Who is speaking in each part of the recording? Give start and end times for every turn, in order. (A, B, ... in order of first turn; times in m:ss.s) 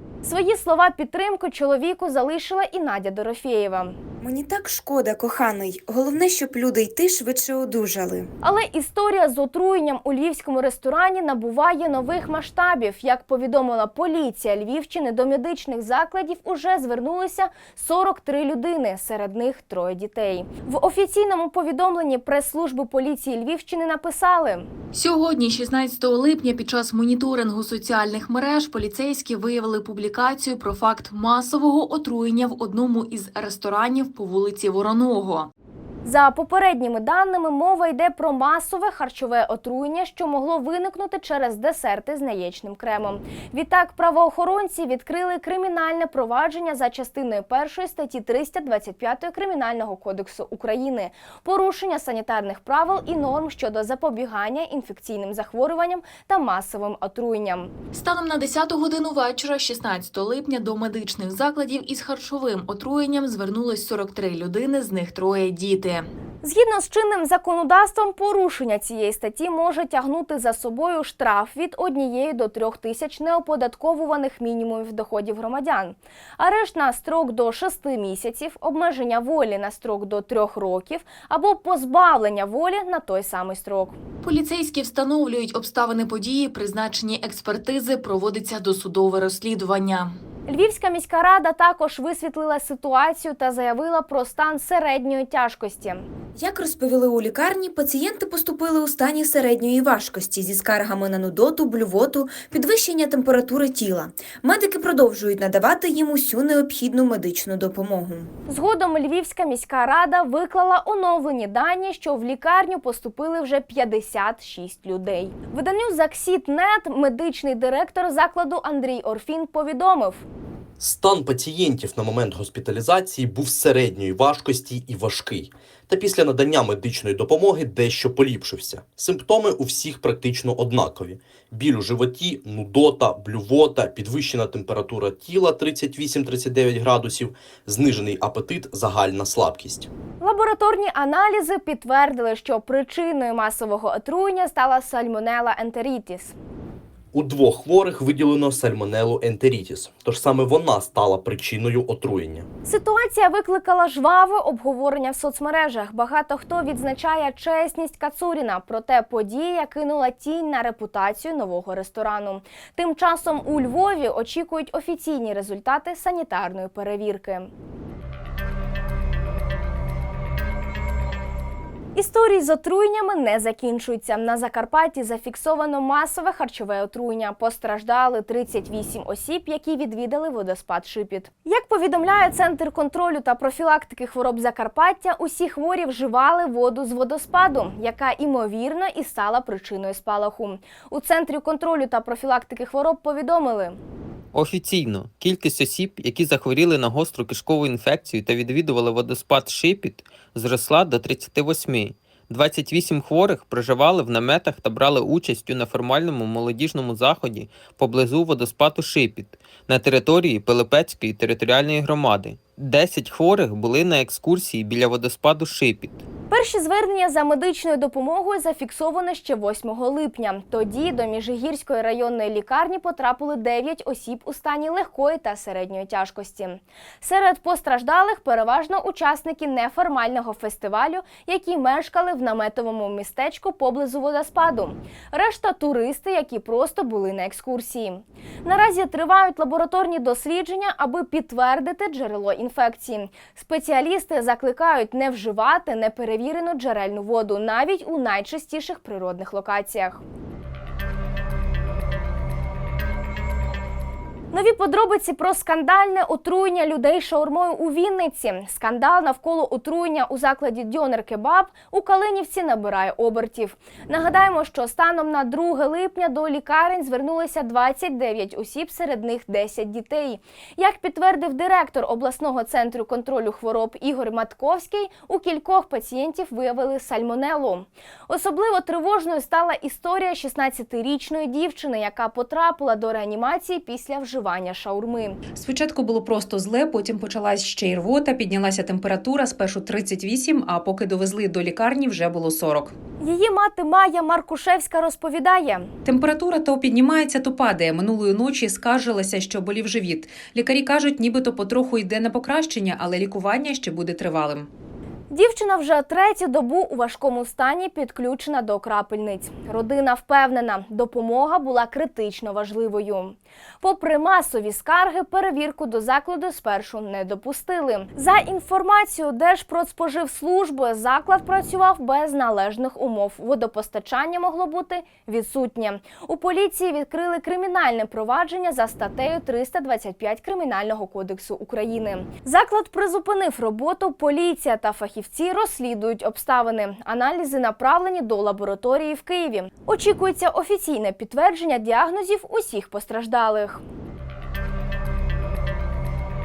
0:00.2-0:04.0 A
0:04.2-0:08.3 B
0:08.4-0:24.7 A
0:24.9-0:35.5 C
0:36.0-0:57.7 A
0:57.9-1:06.1 C
1:06.4-1:24.0 A
1:24.2-1:30.2 C
1:30.5-1:36.1 A
1:36.4-1:48.3 B
1:48.5-2:00.3 A
2:00.8-2:19.9 D
2:20.2-2:26.4 A
2:27.1-2:32.5 D
2:32.6-2:47.5 A
2:52.0-3:13.8 A
3:14.3-3:36.0 E
3:36.3-4:10.0 A
4:14.3-4:45.2 A
4:45.3-4:52.7 F
4:53.0-4:55.7 A
4:55.8-5:04.5 F
5:05.1-5:43.6 A